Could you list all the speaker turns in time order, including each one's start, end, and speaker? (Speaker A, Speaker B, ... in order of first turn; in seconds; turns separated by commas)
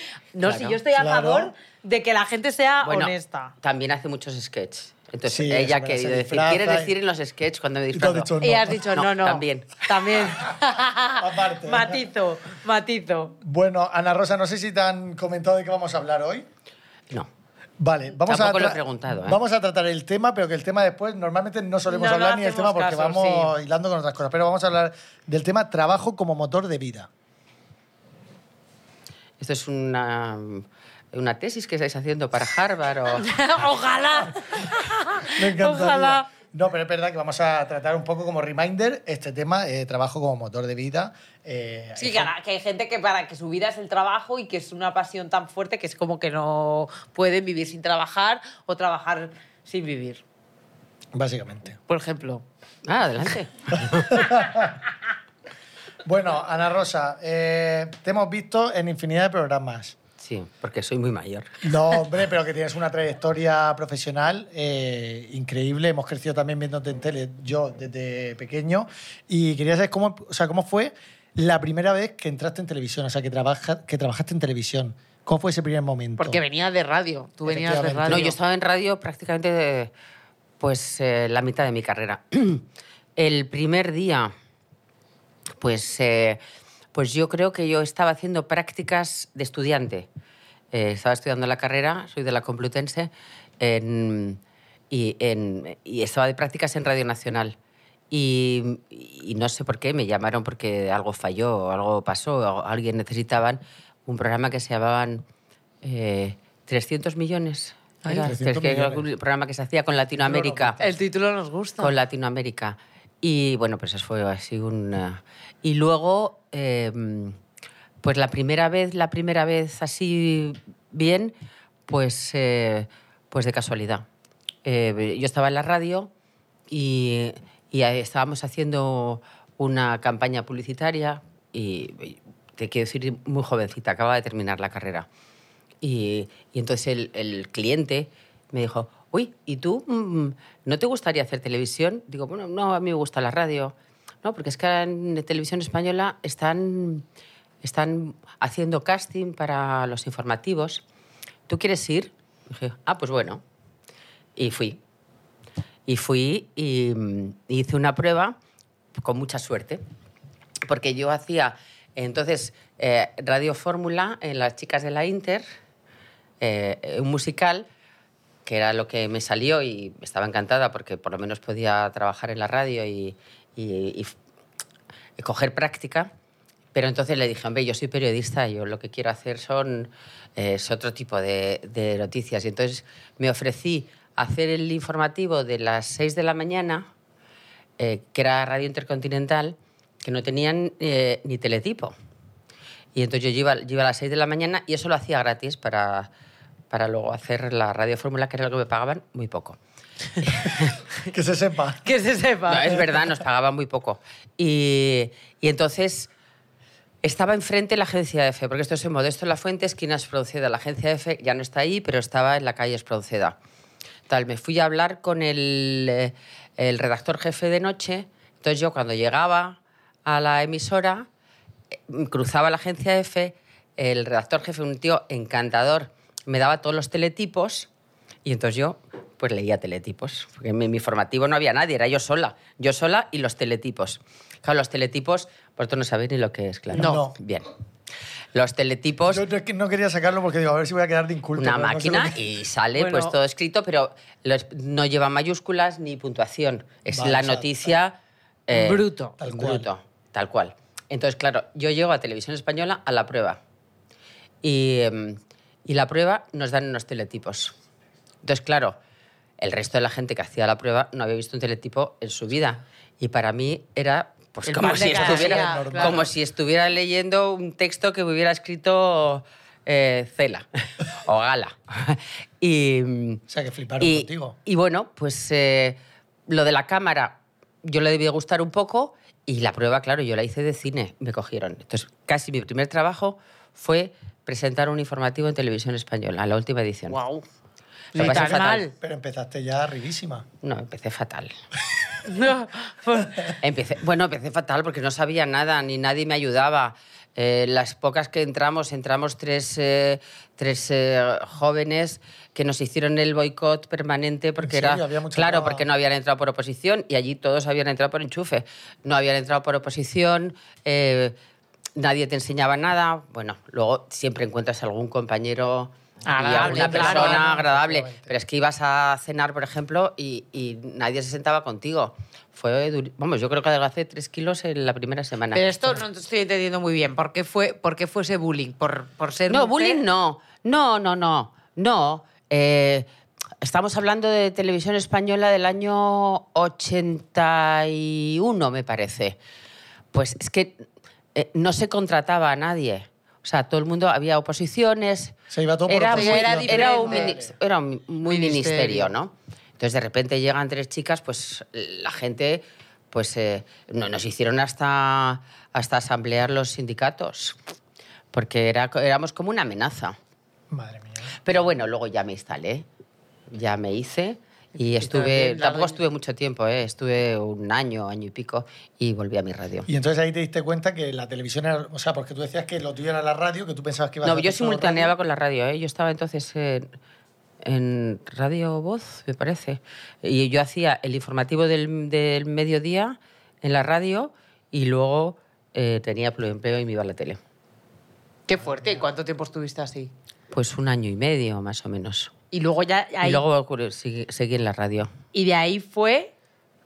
Speaker A: 0.3-3.5, Speaker B: 0.4-0.8, Speaker C: 0.9-1.5, Speaker B: 2.8-8.3, Speaker C: 5.3-6.9, Speaker C: 7.9-8.9, Speaker A: 8.4-13.4, Speaker B: 8.9-10.1, Speaker C: 11.2-12.0, Speaker C: 13.4-16.5, Speaker C: 17.8-27.1, Speaker B: 18.2-19.4, Speaker A: 21.9-23.5, Speaker B: 29.4-33.3, Speaker A: 33.2-36.3, Speaker C: 35.3-42.3, Speaker A: 42.0-50.2, Speaker C: 51.1-51.8, Speaker A: 51.9-52.4, Speaker B: 52.9-54.2, Speaker C: 53.7-54.8, Speaker C: 56.0-60.0, Speaker B: 60.2-61.6, Speaker C: 61.6-76.4, Speaker A: 76.2-78.4, Speaker C: 77.5-78.3, Speaker B: 78.1-79.9, Speaker B: 80.6-82.7, Speaker B: 83.2-84.3, Speaker B: 85.6-86.4, Speaker B: 86.9-90.1, Speaker B: 90.7-94.4, Speaker B: 94.9-97.6, Speaker B: 98.1-105.2, Speaker B: 105.8-110.8, Speaker C: 108.0-109.1, Speaker C: 110.2-111.0, Speaker A: 110.8-112.0, Speaker B: 111.8-117.4, Speaker B: 118.0-121.3, Speaker B: 121.9-124.1, Speaker B: 124.7-126.1, Speaker B: 126.7-135.1, Speaker B: 135.8-147.1, Speaker B: 147.6-150.8, Speaker B: 151.5-153.4, Speaker B: 154.4-154.8, Speaker B: 155.9-158.4, Speaker B: 159.0-159.8, Speaker B: 160.7-165.4, Speaker B: 166.4-167.7, Speaker B: 168.4-174.2, Speaker B: 175.2-176.1, Speaker B: 176.7-186.9, Speaker B: 187.8-191.9, Speaker B: 192.9-196.1, Speaker B: 196.7-199.6, Speaker B: 200.2-200.8, Speaker C: 201.1-201.9, Speaker A: 201.8-202.9, Speaker B: 202.5-206.1, Speaker B: 207.0-213.3, Speaker B: 214.1-221.1, Speaker B: 221.9-227.7, Speaker B: 228.2-237.5, Speaker C: 236.7-237.2, Speaker B: 238.3-239.2, Speaker C: 239.1-242.2, Speaker B: 241.4-247.9, Speaker A: 242.8-243.2, Speaker C: 246.9-247.7, Speaker B: 248.5-253.4, Speaker A: 248.5-249.2, Speaker C: 249.2-249.7, Speaker B: 254.4-257.5, Speaker B: 258.2-258.8, Speaker B: 259.4-273.2, Speaker A: 264.5-266.1, Speaker C: 264.6-266.1, Speaker C: 273.3-274.4, Speaker B: 273.8-287.0, Speaker A: 286.9-287.2, Speaker A: 287.9-288.7, Speaker B: 287.9-288.7, Speaker C: 288.0-290.3, Speaker B: 290.4-291.4, Speaker A: 292.1-293.3, Speaker B: 293.4-311.1, Speaker C: 304.4-305.6, Speaker B: 311.8-325.4, Speaker A: 316.1-317.3, Speaker C: 316.3-318.1, Speaker A: 325.3-329.8, Speaker B: 329.3-332.9, Speaker B: 333.4-339.2, Speaker B: 339.9-345.1, Speaker C: 345.3-347.3, Speaker B: 345.7-357.4, Speaker A: 345.9-347.2, Speaker A: 348.1-348.9, Speaker B: 358.1-360.0, Speaker C: 360.5-361.2, Speaker B: 361.2-362.6, Speaker B: 363.3-369.7, Speaker A: 364.6-365.8, Speaker C: 369.7-374.9, Speaker B: 374.0-376.7, Speaker B: 377.4-387.2, Speaker A: 388.3-389.9, Speaker B: 390.3-392.1, Speaker A: 392.3-393.2, Speaker B: 393.0-394.9, Speaker A: 395.1-396.1